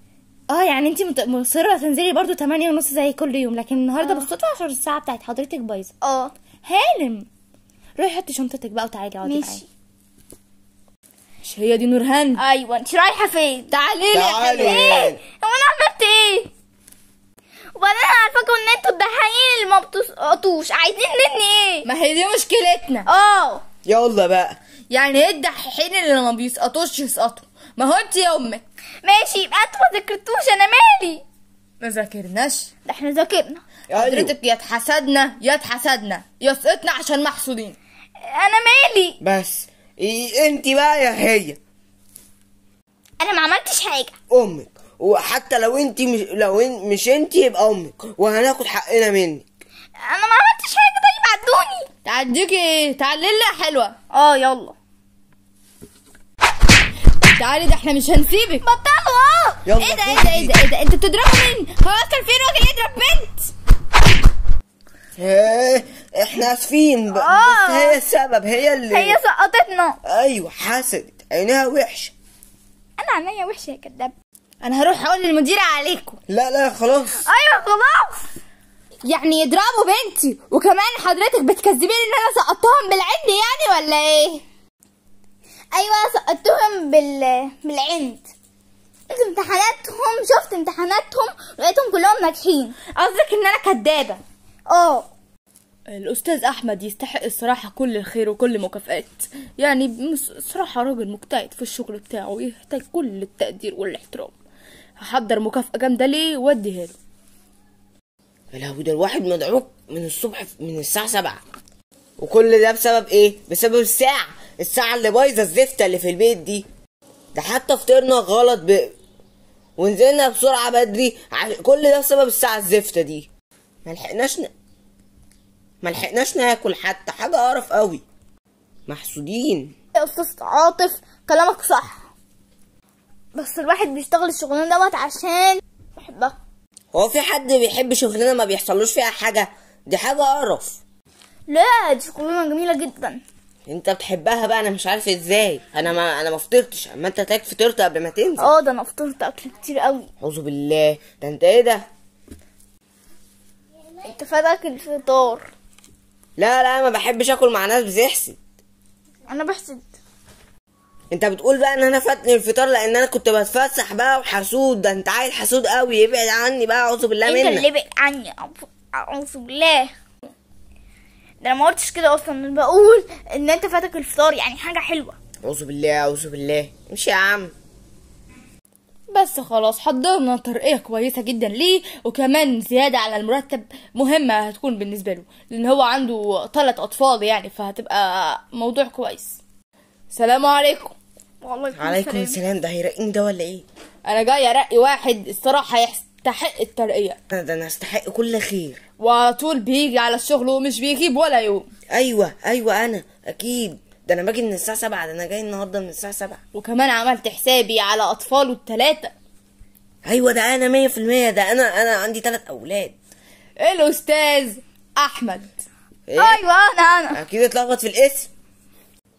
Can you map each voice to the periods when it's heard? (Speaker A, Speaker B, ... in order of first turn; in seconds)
Speaker A: 0.5-5.9, 6.6-7.3, 8.0-9.6, 11.4-12.4, 13.7-14.8, 21.9-23.1, 24.9-28.6, 31.8-32.7, 34.0-37.8, 52.0-54.0, 57.3-58.6, 59.8-63.5, 74.6-76.2, 79.0-84.4, 93.0-94.2, 95.9-104.3, 105.0-107.0, 179.1-189.4, 190.1-190.9, 194.1-197.2, 199.0-201.7, 206.6-209.1, 213.6-215.5
Speaker B: 4.0-4.3, 6.0-6.3, 9.2-9.7, 12.4-13.7, 14.6-16.5, 17.8-21.9, 23.1-23.6, 29.0-31.2, 32.9-33.6, 38.2-39.2, 43.2-44.1, 50.0-51.9, 54.1-54.8, 58.6-59.6, 67.1-68.0, 68.9-70.0, 73.0-74.1, 77.2-78.3, 85.7-88.2, 89.1-92.8, 94.7-95.1, 130.0-132.0, 133.3-136.3, 141.5-143.2, 148.4-150.1, 154.0-155.5, 159.3-159.9, 167.2-169.9, 171.4-175.2, 191.4-192.4, 216.2-217.2
Speaker C: 14.1-15.2, 23.9-24.6, 33.9-34.3, 39.2-41.6, 44.3-49.5, 59.7-60.6, 65.2-69.2, 70.0-72.1, 76.3-77.2, 108.5-111.4, 112.2-116.7, 117.3-119.0, 119.8-123.3, 123.9-124.5, 125.8-128.0, 128.9-129.7, 136.9-140.8, 143.7-148.5, 150.2-151.8, 156.4-158.4, 161.1-167.7, 175.4-177.5, 191.8-193.7, 197.3-198.8, 201.9-206.4, 210.1-212.9, 216.1-216.4, 217.1-218.3